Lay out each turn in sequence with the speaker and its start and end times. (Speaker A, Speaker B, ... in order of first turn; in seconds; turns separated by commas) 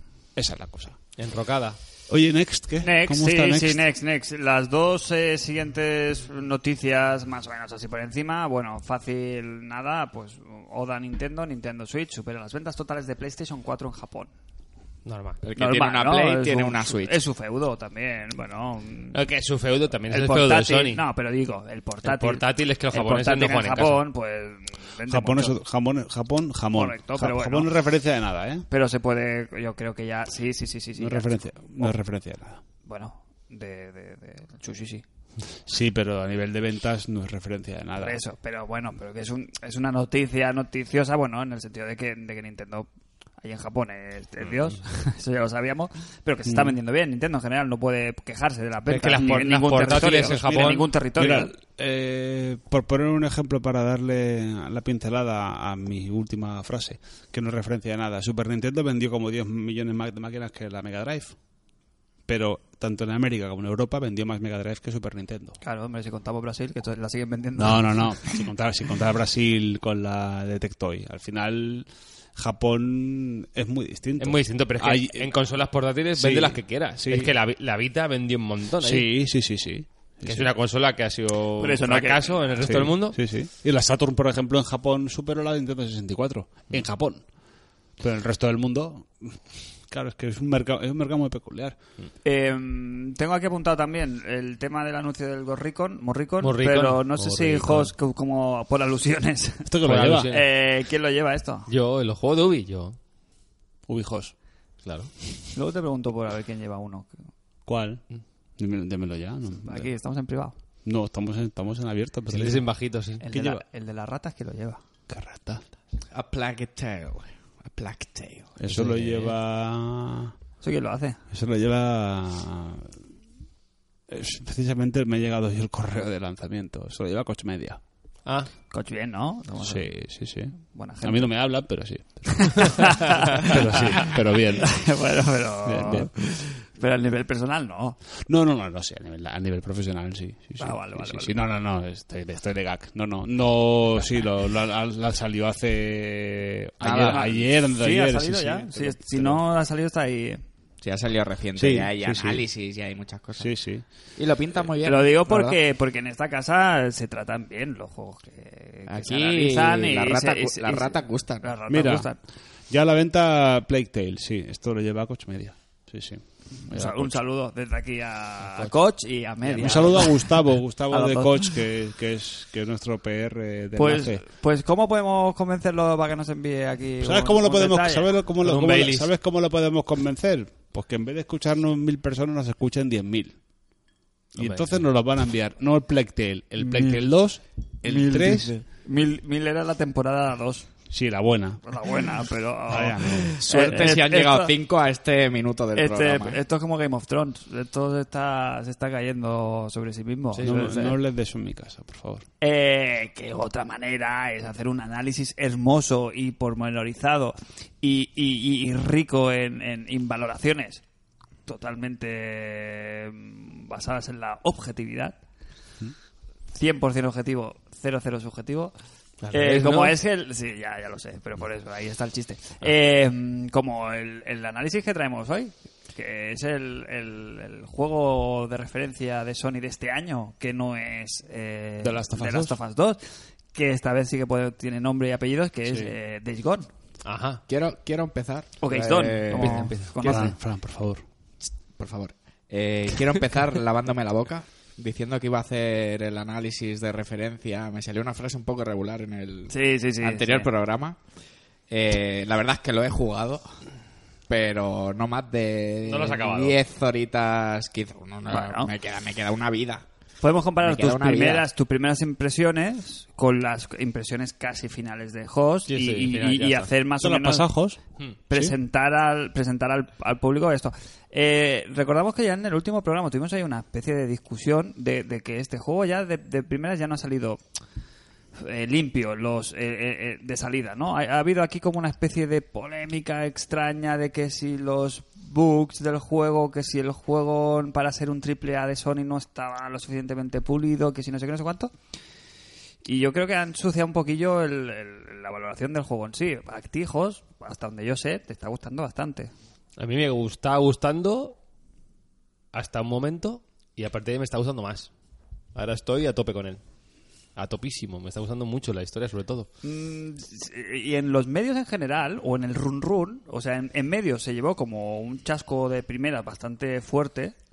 Speaker A: 0.4-1.0, Speaker B: 1.2-1.8, Speaker A: 2.1-3.8, Speaker C: 2.8-14.3, Speaker B: 15.1-15.4, Speaker D: 15.4-17.2, Speaker C: 15.6-19.2, Speaker B: 19.1-21.0, Speaker C: 20.1-25.6, Speaker B: 22.0-24.0, Speaker A: 25.1-28.6, Speaker C: 26.7-27.7, Speaker C: 28.7-31.9, Speaker A: 31.0-32.6, Speaker C: 32.9-35.0, Speaker A: 35.7-38.2, Speaker C: 38.0-42.9, Speaker C: 43.4-51.5, Speaker A: 46.5-46.8, Speaker B: 48.9-50.9, Speaker A: 49.8-61.4, Speaker A: 62.3-65.6, Speaker C: 65.6-68.4, Speaker A: 67.6-75.3, Speaker B: 74.2-79.1, Speaker A: 76.2-77.3, Speaker A: 78.8-80.5, Speaker B: 80.3-83.2, Speaker C: 81.6-82.4, Speaker A: 82.6-87.2, Speaker A: 88.0-91.8, Speaker C: 92.2-99.8, Speaker B: 96.4-97.9, Speaker A: 99.7-100.3, Speaker B: 99.8-100.5, Speaker C: 100.3-101.7, Speaker B: 101.7-103.0, Speaker A: 103.9-104.3, Speaker B: 104.8-105.1, Speaker C: 105.5-107.2, Speaker A: 107.7-108.0, Speaker A: 108.6-109.9, Speaker C: 109.6-110.6, Speaker A: 110.8-112.7, Speaker B: 112.3-113.2, Speaker C: 113.2-114.8, Speaker A: 113.3-113.6, Speaker A: 115.1-115.6, Speaker D: 116.1-118.6, Speaker A: 118.6-120.3, Speaker B: 118.7-119.4, Speaker C: 120.6-121.2, Speaker A: 121.3-122.9, Speaker A: 124.1-127.8, Speaker B: 128.2-128.5, Speaker C: 128.7-129.9, Speaker A: 129.6-134.9, Speaker C: 130.7-131.3, Speaker C: 132.4-138.0, Speaker A: 135.7-136.1, Speaker A: 138.3-149.4, Speaker C: 140.6-141.4, Speaker D: 146.8-147.4, Speaker C: 146.9-150.4, Speaker D: 150.8-153.5, Speaker A: 151.6-152.4, Speaker A: 153.4-153.8, Speaker D: 154.2-155.6, Speaker C: 154.8-162.2, Speaker D: 158.9-161.5, Speaker A: 161.7-162.1, Speaker A: 162.7-167.2, Speaker C: 166.6-170.4, Speaker B: 168.5-168.7, Speaker A: 169.5-174.2, Speaker C: 170.9-171.6, Speaker C: 173.8-178.1, Speaker A: 177.0-183.4, Speaker B: 178.4-179.1, Speaker A: 184.3-188.6, Speaker B: 184.4-184.8, Speaker C: 186.6-187.0, Speaker C: 187.8-190.7, Speaker A: 190.9-191.6, Speaker C: 191.6-194.5, Speaker A: 192.7-193.4, Speaker D: 193.4-196.4, Speaker C: 195.8-200.9, Speaker B: 200.3-200.9, Speaker A: 200.4-202.2, Speaker C: 202.4-210.8, Speaker C: 211.5-215.2, Speaker C: 216.5-218.7, Speaker B: 219.2-219.9, Speaker C: 219.3-233.0, Speaker A: 231.8-232.6, Speaker C: 233.5-236.7, Speaker A: 235.7-235.9, Speaker B: 237.0-237.4, Speaker D: 237.5-239.9, Speaker C: 238.6-240.4, Speaker B: 239.4-240.2, Speaker A: 239.5-241.0, Speaker D: 241.8-251.0, Speaker C: 249.5-250.5, Speaker D: 251.7-253.6, Speaker D: 254.3-259.9, Speaker B: 255.8-256.6, Speaker C: 258.3-258.7, Speaker C: 260.2-267.5, Speaker D: 260.6-261.5, Speaker B: 265.7-266.7, Speaker A: 267.0-267.8, Speaker C: 268.3-277.4, Speaker C: 278.4-291.7, Speaker C: 292.8-299.3, Speaker B: 299.8-301.4, Speaker B: 302.5-304.9, Speaker B: 305.6-306.6, Speaker B: 307.4-309.5, Speaker C: 309.6-317.3